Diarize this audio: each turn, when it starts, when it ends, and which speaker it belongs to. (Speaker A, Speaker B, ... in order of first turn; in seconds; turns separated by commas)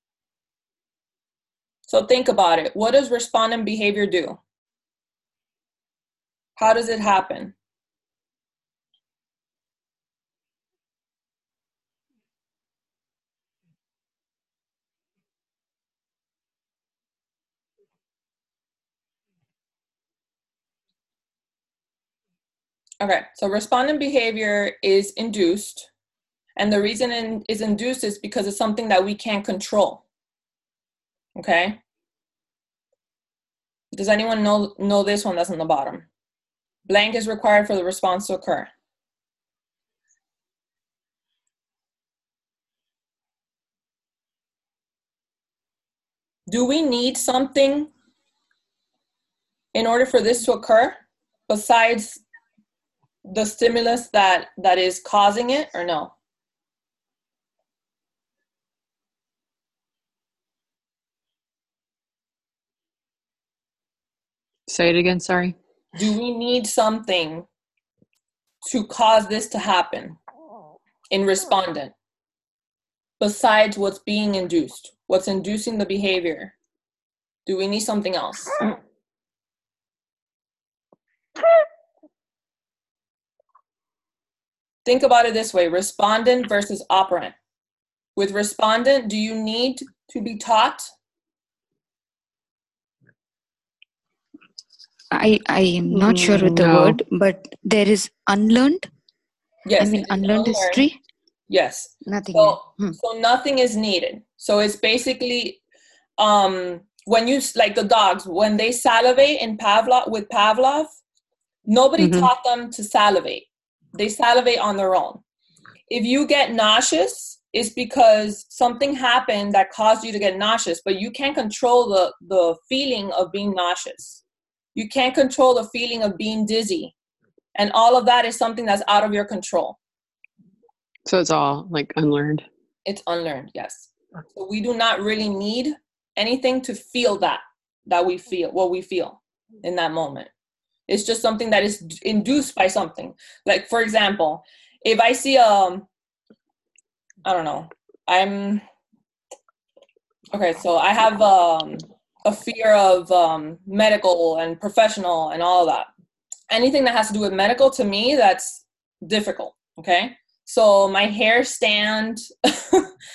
Speaker A: 1.9-4.4, Speaker A: 6.6-7.5, Speaker A: 23.0-25.9, Speaker A: 26.6-30.0, Speaker A: 31.4-31.8, Speaker A: 33.9-36.1, Speaker A: 36.9-38.7, Speaker A: 46.5-47.9, Speaker A: 49.7-51.0, Speaker A: 51.5-52.2, Speaker A: 53.2-56.1, Speaker B: 64.7-65.5, Speaker A: 65.9-67.5, Speaker A: 68.6-70.2, Speaker A: 71.1-71.9, Speaker A: 73.2-76.5, Speaker A: 77.5-78.7, Speaker A: 84.8-87.3, Speaker A: 88.2-90.9, Speaker C: 95.1-98.9, Speaker B: 95.9-97.0, Speaker A: 99.6-100.8, Speaker C: 99.8-101.0, Speaker A: 101.5-105.6, Speaker C: 102.0-103.0, Speaker A: 106.2-110.9, Speaker A: 111.7-115.2, Speaker B: 112.0-112.3, Speaker A: 115.9-124.2, Speaker A: 124.7-126.9, Speaker A: 127.5-129.8, Speaker B: 131.1-132.4, Speaker A: 132.8-140.3, Speaker A: 140.9-145.9, Speaker A: 147.2-148.6, Speaker A: 150.3-155.9, Speaker A: 156.5-162.9